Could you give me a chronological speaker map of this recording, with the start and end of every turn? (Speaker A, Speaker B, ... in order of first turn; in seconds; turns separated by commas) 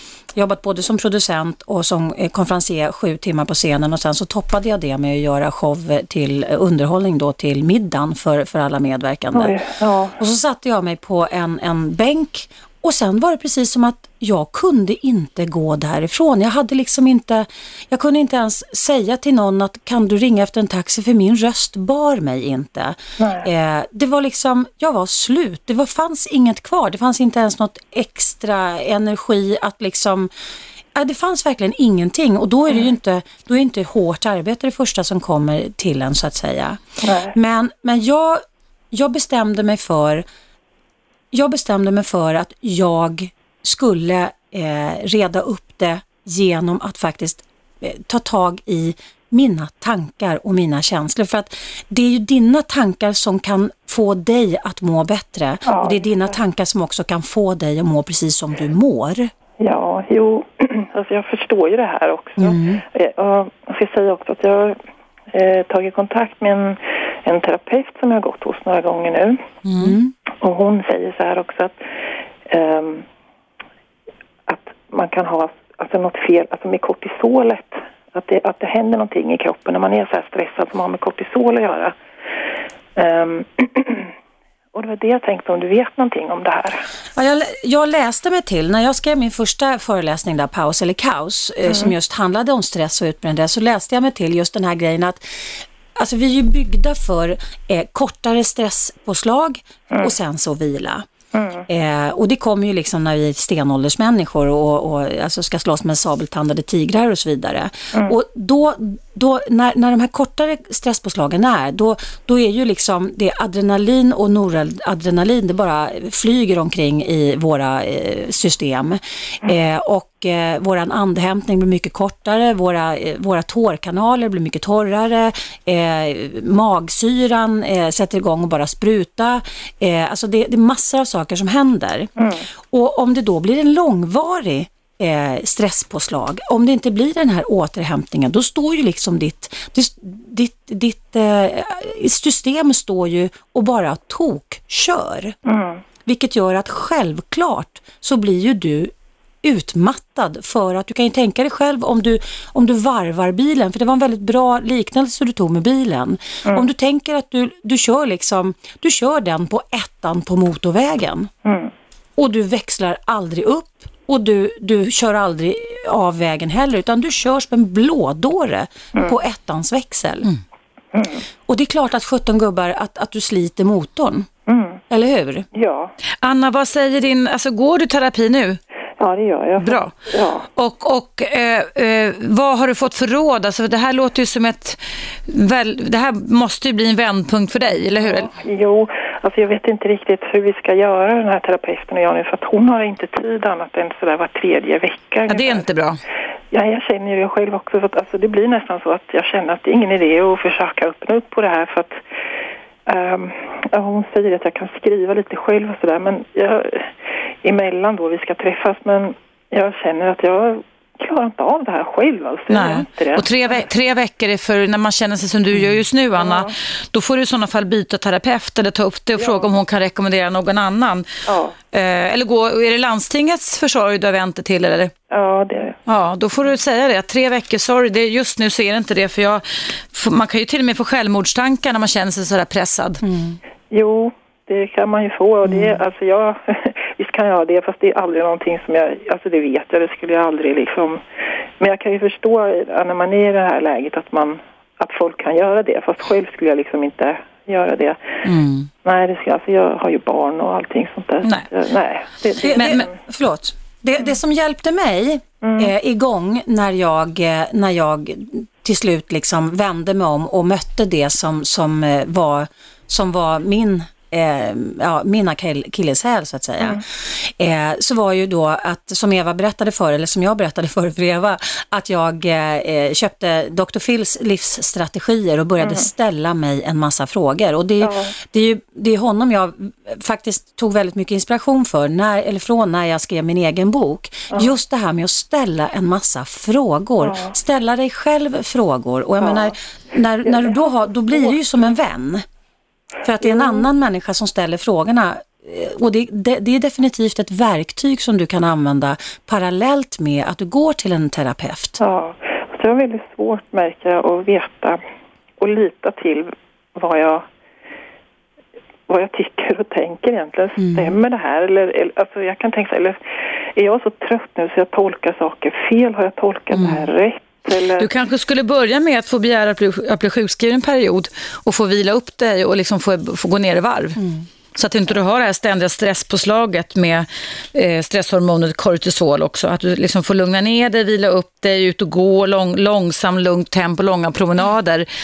Speaker A: 0.3-9.6, Speaker B: 9.3-10.2, Speaker A: 10.2-30.3, Speaker B: 23.2-23.5, Speaker A: 30.9-40.2, Speaker B: 37.0-37.3, Speaker A: 41.3-59.3, Speaker B: 55.6-56.0, Speaker B: 59.6-64.8, Speaker A: 62.4-62.8, Speaker B: 65.3-69.4, Speaker C: 69.7-69.9, Speaker A: 69.8-70.1, Speaker B: 70.4-71.8, Speaker B: 72.5-73.0, Speaker B: 74.5-81.9, Speaker B: 83.0-84.1, Speaker B: 84.7-86.9, Speaker A: 87.1-101.1, Speaker B: 91.7-91.9, Speaker B: 101.3-101.6, Speaker A: 101.7-132.1, Speaker B: 132.2-132.5, Speaker A: 132.7-145.3, Speaker B: 145.4-145.8, Speaker A: 146.1-148.9, Speaker A: 149.4-161.3, Speaker B: 161.4-161.7, Speaker A: 162.2-170.3, Speaker B: 170.9-171.2, Speaker A: 171.5-174.3, Speaker B: 174.5-174.8, Speaker A: 174.9-175.5, Speaker B: 175.5-175.9, Speaker C: 176.2-178.6, Speaker B: 179.0-180.5, Speaker C: 179.6-179.9, Speaker C: 180.5-188.3, Speaker B: 188.0-195.6, Speaker C: 195.3-196.0, Speaker B: 196.5-202.0, Speaker B: 202.9-213.7, Speaker C: 212.5-221.1, Speaker B: 216.2-216.5, Speaker B: 219.2-219.5, Speaker B: 221.2-221.5, Speaker C: 221.7-224.9, Speaker B: 225.1-225.8, Speaker C: 225.8-233.0, Speaker A: 233.0-233.4, Speaker B: 233.7-241.0, Speaker A: 235.4-235.8, Speaker B: 241.6-248.2, Speaker C: 248.2-248.7, Speaker B: 248.8-252.9, Speaker C: 251.2-251.5, Speaker A: 252.4-292.2, Speaker C: 252.6-252.8, Speaker B: 255.4-255.7, Speaker B: 275.6-275.9, Speaker B: 277.8-278.1, Speaker B: 287.0-287.3, Speaker B: 289.2-289.5, Speaker B: 290.2-291.3, Speaker A: 293.0-301.8, Speaker B: 293.2-293.6, Speaker B: 301.8-304.8, Speaker B: 305.4-307.2, Speaker B: 308.9-313.0, Speaker A: 310.6-310.9, Speaker B: 313.6-317.9, Speaker A: 316.5-316.9, Speaker C: 317.8-324.0, Speaker A: 324.0-324.2, Speaker C: 324.5-334.9